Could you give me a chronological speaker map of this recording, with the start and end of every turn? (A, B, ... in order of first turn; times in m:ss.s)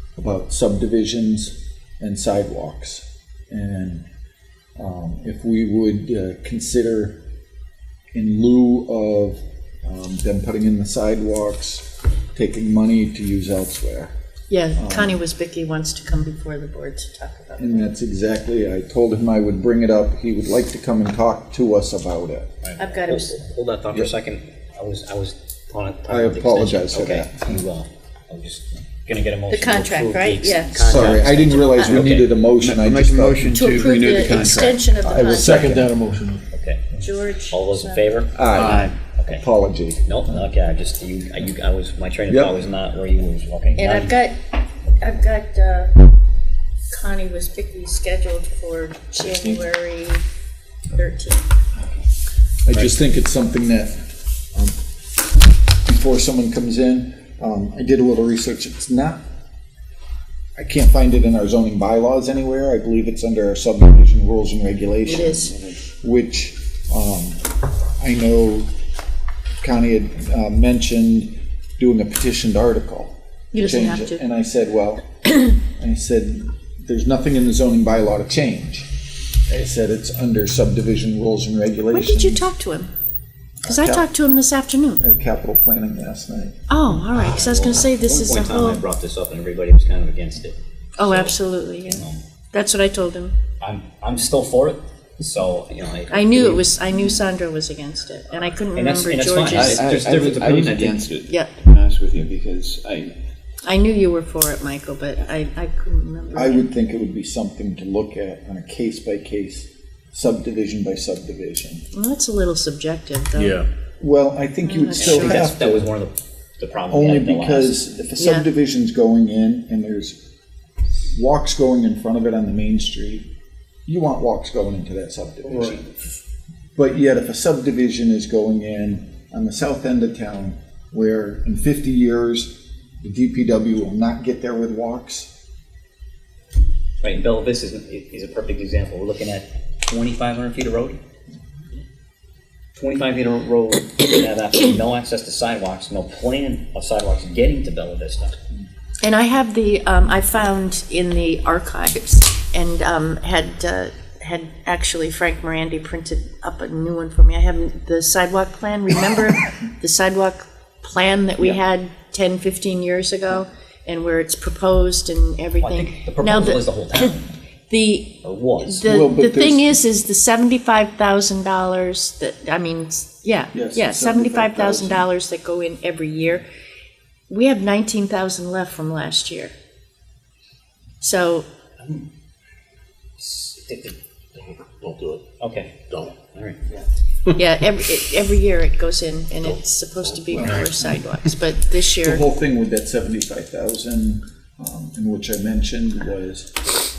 0:00.2-0:04.0 A
0:04.8-0:07.2 A
0:08.1-0:14.1 A
0:14.5-0:17.9 B
0:14.8-0:15.2 A
0:17.6-0:22.5 A
0:22.6-0:32.3 C
0:22.8-0:23.4 B
0:26.1-0:27.6 A
0:29.5-0:32.0 B
0:30.8-0:33.7 A
0:30.9-0:34.9 D
0:33.4-0:35.7 B
0:35.0-0:36.0 A
0:35.2-0:36.4 E
0:36.5-0:36.8 C
0:37.0-0:38.0 B
0:37.5-0:39.4 C
0:38.3-0:40.1 A
0:38.6-0:39.0 D
0:40.0-0:44.2 C
0:42.3-0:42.6 A
0:43.8-0:44.4 B
0:45.0-0:46.0 B
0:46.9-0:50.2 B
0:49.2-0:49.6 A
0:50.9-0:51.4 B
0:52.6-0:54.8 A
0:55.8-0:59.2 A
1:00.6-1:07.4 A
1:05.1-1:05.5 B
1:08.0-1:08.7 A
1:09.6-1:18.9 A
1:13.5-1:14.2 B
1:19.5-1:22.5 A
1:21.9-1:22.9 B
1:23.6-1:24.1 A
1:23.7-1:25.0 B
1:25.0-1:26.6 A
1:26.7-1:28.8 B
1:27.1-1:32.2 C
1:31.0-1:33.4 B
1:33.6-1:36.7 C
1:36.1-1:39.9 B
1:38.7-1:41.0 C
1:39.4-1:43.1 D
1:43.6-1:46.7 B
1:46.3-1:51.9 A
1:51.9-1:53.6 B
1:53.4-1:53.7 E
1:54.0-1:55.9 A
1:54.6-1:55.5 B
1:55.0-1:57.9 C
1:56.9-2:00.2 A
1:58.2-1:58.4 B
2:01.1-2:03.3 A
2:03.9-2:05.8 A
2:06.8-2:15.3 A
2:17.0-2:21.0 C
2:22.8-2:28.4 C
2:29.0-2:47.1 B
2:45.6-2:47.4 C
2:47.7-2:56.5 B
2:48.2-2:48.8 C
2:48.8-2:49.8 A
2:53.5-2:55.1 A
2:57.3-2:59.5 B
3:01.0-3:01.5 B
3:01.8-3:02.1 C
3:03.2-3:04.0 C
3:04.4-3:05.4 E
3:05.4-3:06.6 C
3:07.3-3:12.2 B
3:09.4-3:10.9 E
3:10.4-3:11.0 A
3:12.0-3:16.6 A